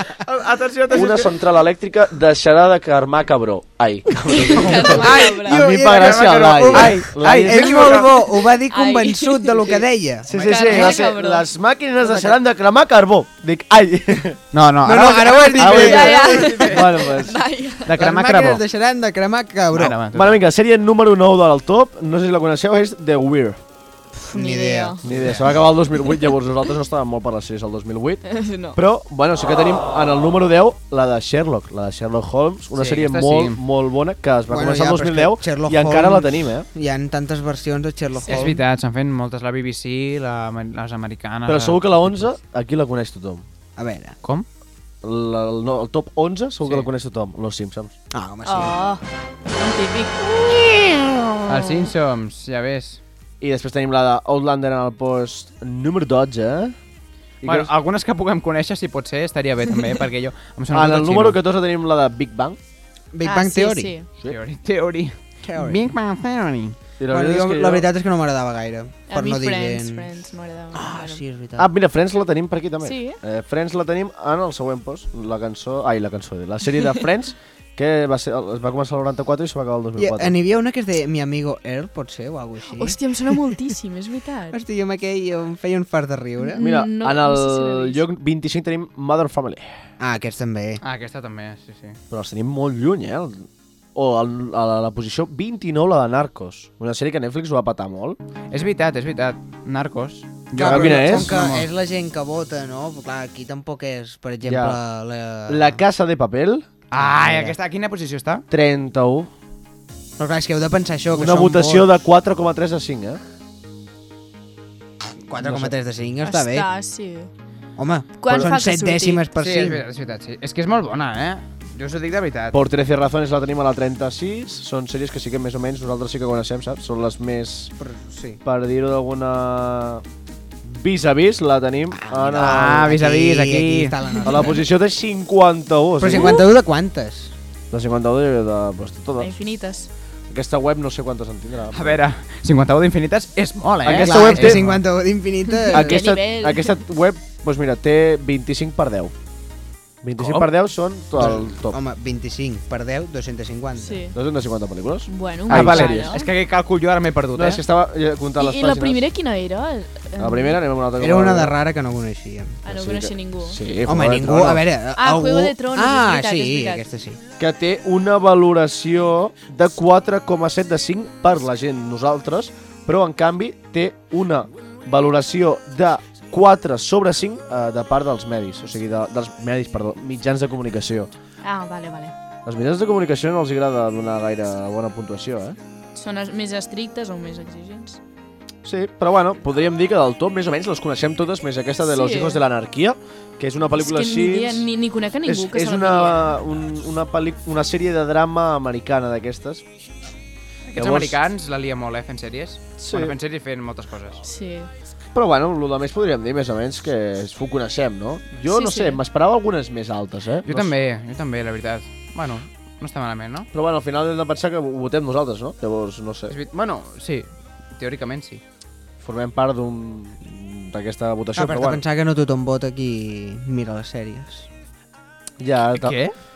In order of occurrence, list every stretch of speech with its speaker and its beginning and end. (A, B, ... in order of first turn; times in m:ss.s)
0:00.2-0:01.3 A
0:00.9-0:08.1 B
0:04.3-0:05.6 C
0:05.0-0:11.0 D
0:05.8-0:08.1 A
0:08.7-0:11.5 C
0:10.3-0:14.4 B
0:12.0-0:12.4 D
0:14.5-0:16.1 A
0:14.8-0:16.6 D
0:15.4-0:17.9 C
0:15.6-0:17.4 B
0:17.9-0:18.6 A
0:18.0-0:20.0 D
0:19.7-0:20.4 A
0:20.1-0:23.6 B
0:24.3-0:25.0 C
0:24.3-0:25.3 D
0:25.0-0:28.2 B
0:25.1-0:25.4 A
0:28.2-0:28.8 C
0:28.7-0:36.7 B
0:32.8-0:33.6 A
0:34.5-0:38.6 D
0:38.3-0:42.3 A
0:41.5-0:43.4 B
0:43.8-0:44.2 D
0:45.0-0:47.9 B
0:48.1-0:48.8 D
0:48.4-0:49.0 C
0:49.6-0:50.3 C
0:51.5-0:53.0 A
0:53.4-0:56.8 B
0:57.4-0:57.7 B
0:57.4-1:01.4 A
1:00.7-1:02.6 B
1:03.1-1:04.0 D
1:03.2-1:04.1 C
1:04.3-1:06.8 A
1:05.4-1:05.9 D
1:07.0-1:07.9 B
1:07.1-1:10.1 D
1:09.1-1:11.2 C
1:10.7-1:11.7 D
1:11.6-1:20.3 B
1:12.8-1:13.2 C
1:20.0-1:23.0 D
1:22.7-1:24.6 C
1:24.5-1:26.7 D
1:26.4-1:28.0 C
1:26.6-1:29.7 B
1:30.0-1:30.8 D
1:30.8-1:32.0 A
1:32.1-1:38.2 B
1:38.5-1:41.7 A
1:40.6-1:41.4 B
1:40.6-1:45.8 D
1:44.4-1:44.8 B
1:45.5-1:46.7 B
1:46.9-1:48.4 A
1:47.2-1:47.5 D
1:48.5-1:49.3 B
1:50.2-1:51.9 D
1:51.1-1:53.2 B
1:55.3-1:56.7 D
1:55.4-1:55.7 B
1:56.2-1:57.3 C
1:57.8-1:59.8 D
1:58.2-1:59.2 C
1:59.4-2:02.6 A
2:02.5-2:07.7 B
2:07.8-2:08.4 D
2:08.4-2:10.0 B
2:10.6-2:12.9 B
2:11.9-2:14.6 D
2:12.4-2:14.0 A
2:14.2-2:16.4 B
2:16.0-2:17.3 D
2:17.7-2:19.3 B
2:19.2-2:19.9 C
2:20.3-2:22.0 B
2:21.7-2:24.8 A
2:23.8-2:24.7 B
2:23.9-2:26.0 D
2:25.5-2:26.8 C
2:25.7-2:29.1 B
2:30.0-2:31.8 B
2:30.2-2:30.5 A
2:31.2-2:34.1 D
2:33.8-2:34.2 C
2:34.1-2:36.2 B
2:35.1-2:36.3 C
2:35.5-2:37.6 A
2:37.4-2:39.0 B
2:38.4-2:40.6 C
2:40.2-2:41.5 B
2:41.0-2:42.6 D
2:42.6-2:43.6 C
2:42.7-2:44.6 B
2:43.9-2:47.2 D
2:45.0-2:46.8 C
2:47.4-3:01.1 B
3:01.4-3:02.1 C
3:02.5-3:05.6 B
3:06.0-3:08.0 C
3:08.6-3:14.7 B
3:11.9-3:12.4 C
3:13.8-3:16.3 C
3:15.2-3:19.6 B
3:20.7-3:24.2 A
3:20.8-3:21.2 B
3:22.8-3:23.2 B
3:24.2-3:24.7 C
3:25.1-3:30.7 B
3:28.5-3:29.0 C
3:30.5-3:33.5 A
3:33.5-3:36.3 B
3:36.3-3:38.4 A
3:39.0-3:41.8 B
3:41.4-3:44.5 D
3:45.4-3:46.0 B
3:45.8-3:46.1 A